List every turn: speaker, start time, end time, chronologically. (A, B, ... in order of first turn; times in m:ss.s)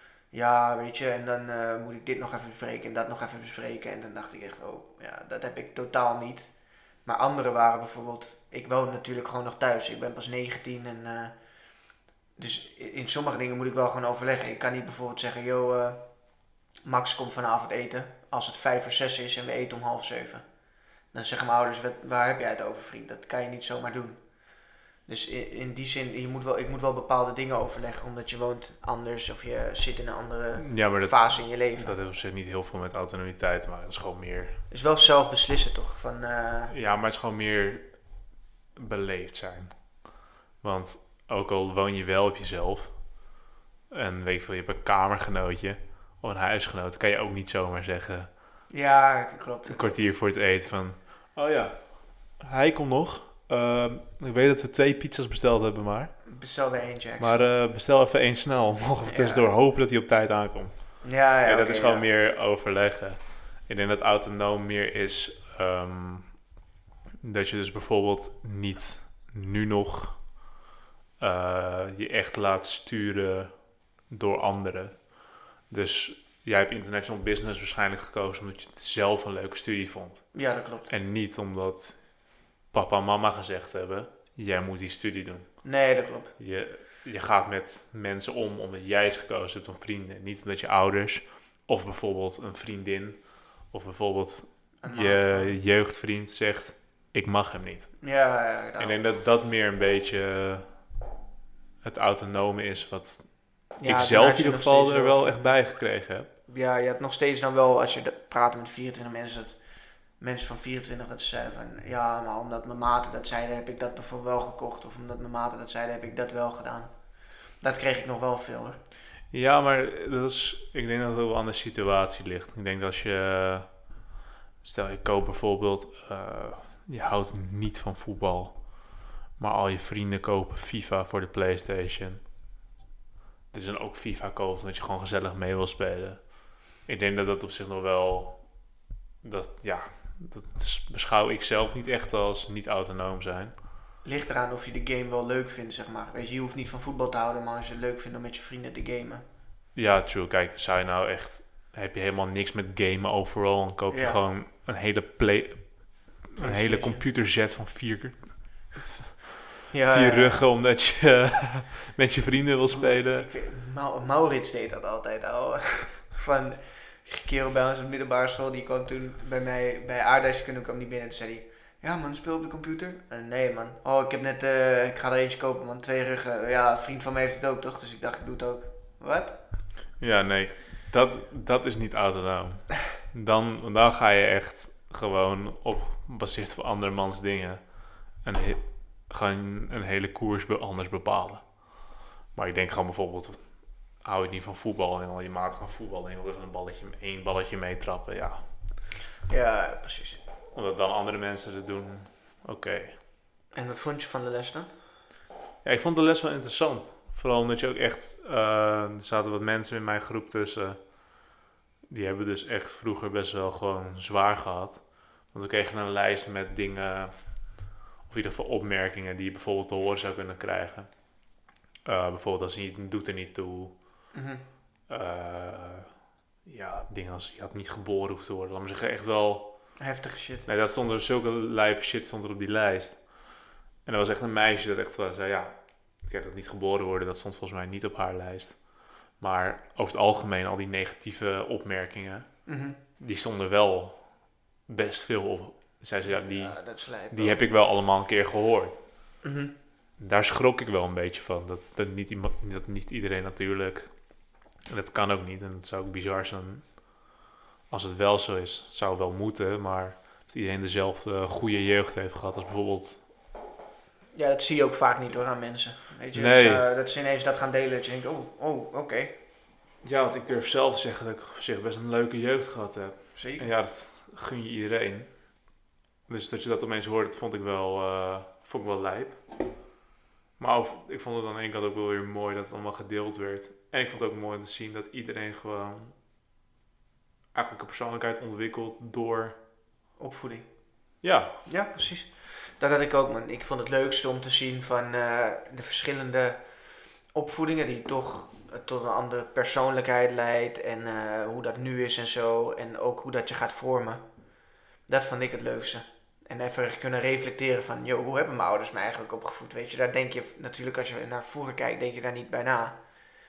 0:00.3-0:06.5 A
0:07.0-0:20.4 A
0:21.1-0:32.0 A
0:30.6-0:34.6 B
0:34.7-0:36.7 A
0:36.7-0:43.3 B
0:43.9-0:48.3 B
0:48.7-0:50.0 A
0:49.6-0:56.2 B
0:56.2-0:57.4 A
0:57.2-1:06.5 B
0:59.0-0:59.5 A
1:01.0-1:02.1 A
1:07.2-1:10.6 B
1:11.2-1:25.8 B
1:20.3-1:20.9 A
1:25.6-1:26.3 A
1:26.4-1:38.2 B
1:34.8-1:35.6 A
1:38.0-1:39.1 A
1:38.8-1:40.9 B
1:41.8-1:46.3 B
1:43.8-1:45.8 A
1:46.5-1:58.8 A
1:59.3-2:04.0 B
2:04.6-2:12.3 B
2:13.5-2:23.5 B
2:24.0-2:29.2 A
2:29.7-2:38.9 B
2:33.9-2:34.2 A
2:36.4-2:37.0 A
2:39.7-2:40.5 A
2:39.8-2:43.3 B
2:42.7-2:59.4 A
3:00.0-3:18.7 B
3:19.3-3:20.2 A
3:20.5-3:23.0 B
3:23.5-3:24.7 A
3:25.6-3:31.4 B
3:31.9-3:44.1 B
3:44.1-3:44.4 A
3:44.9-3:49.9 B
3:49.8-3:50.5 A
3:50.4-4:09.1 B
4:02.4-4:02.8 A
4:06.0-4:07.5 A
4:09.2-4:09.5 A
4:10.0-4:17.1 B
4:17.7-4:23.1 B
4:24.1-4:29.1 A
4:26.1-4:26.6 B
4:29.8-4:39.6 B
4:33.1-4:33.5 A
4:40.4-4:46.0 B
4:47.3-4:49.4 B
4:50.0-5:12.8 A
4:51.0-4:51.4 B